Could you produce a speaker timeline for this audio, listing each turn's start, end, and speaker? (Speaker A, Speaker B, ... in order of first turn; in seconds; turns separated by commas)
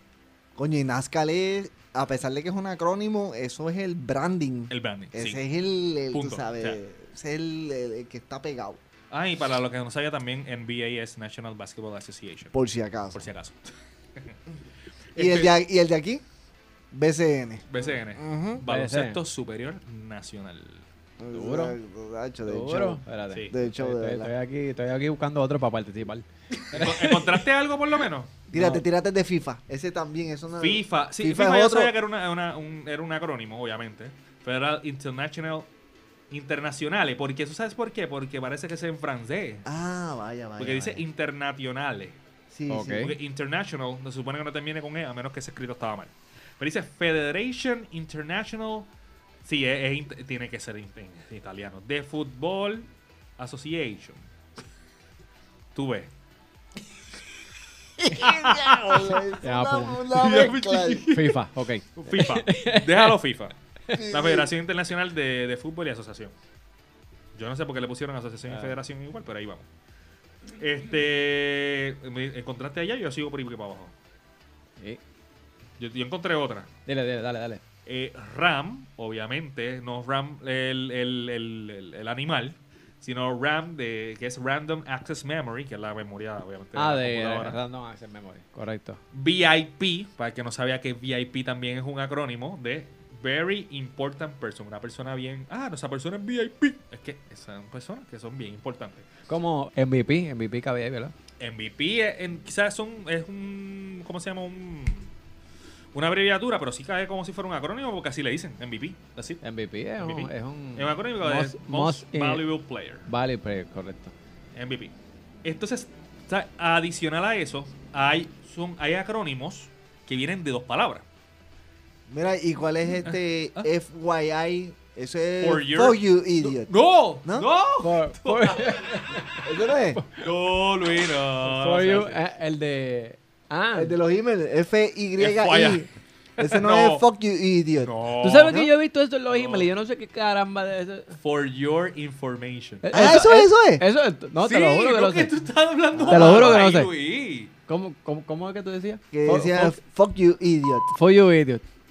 Speaker A: 0.6-8.8, Speaker B: 4.7-5.4, Speaker B: 6.1-6.8, Speaker B: 9.1-12.5, Speaker A: 12.5-13.3, Speaker B: 13.1-14.3, Speaker B: 15.1-15.6, Speaker A: 15.2-16.2, Speaker A: 16.9-17.7, Speaker B: 17.7-20.9, Speaker A: 18.2-18.6, Speaker C: 18.4-19.2, Speaker A: 21.2-24.3, Speaker C: 21.3-21.8, Speaker C: 22.5-27.4, Speaker B: 26.7-28.4, Speaker A: 28.5-31.9, Speaker C: 28.6-28.8, Speaker B: 30.6-35.7, Speaker B: 36.3-39.7, Speaker A: 39.6-41.0, Speaker B: 40.6-42.2, Speaker A: 42.5-43.1, Speaker C: 42.7-43.1, Speaker B: 43.0-48.9, Speaker B: 49.5-54.2, Speaker B: 55.8-56.1, Speaker A: 58.0-61.1, Speaker B: 58.1-59.2, Speaker C: 59.4-60.1, Speaker B: 60.1-61.4, Speaker C: 61.1-63.1, Speaker B: 62.0-66.3, Speaker A: 63.9-64.5, Speaker B: 67.3-69.7, Speaker C: 68.5-68.8, Speaker B: 70.5-73.9, Speaker B: 75.8-76.7, Speaker C: 76.9-77.6, Speaker B: 77.9-87.6, Speaker C: 86.8-89.0, Speaker B: 89.1-99.1, Speaker C: 99.3-101.1, Speaker B: 101.4-105.1, Speaker B: 105.9-109.4, Speaker C: 109.4-112.4, Speaker B: 110.0-113.1, Speaker C: 113.1-114.1, Speaker B: 114.5-121.0, Speaker A: 122.1-126.7, Speaker B: 123.1-123.7, Speaker B: 125.4-129.2, Speaker C: 127.8-129.4, Speaker A: 129.4-130.0, Speaker B: 130.2-132.2, Speaker C: 131.4-134.0, Speaker A: 133.7-135.9, Speaker B: 135.2-137.1, Speaker A: 136.4-137.9, Speaker B: 137.8-138.7, Speaker C: 138.2-141.2, Speaker B: 139.3-139.7, Speaker B: 141.2-143.0, Speaker C: 142.8-145.3, Speaker A: 142.9-143.8, Speaker B: 144.4-147.5, Speaker A: 145.9-146.6, Speaker C: 146.1-146.9, Speaker C: 147.7-149.8, Speaker A: 149.1-150.9, Speaker C: 150.9-151.6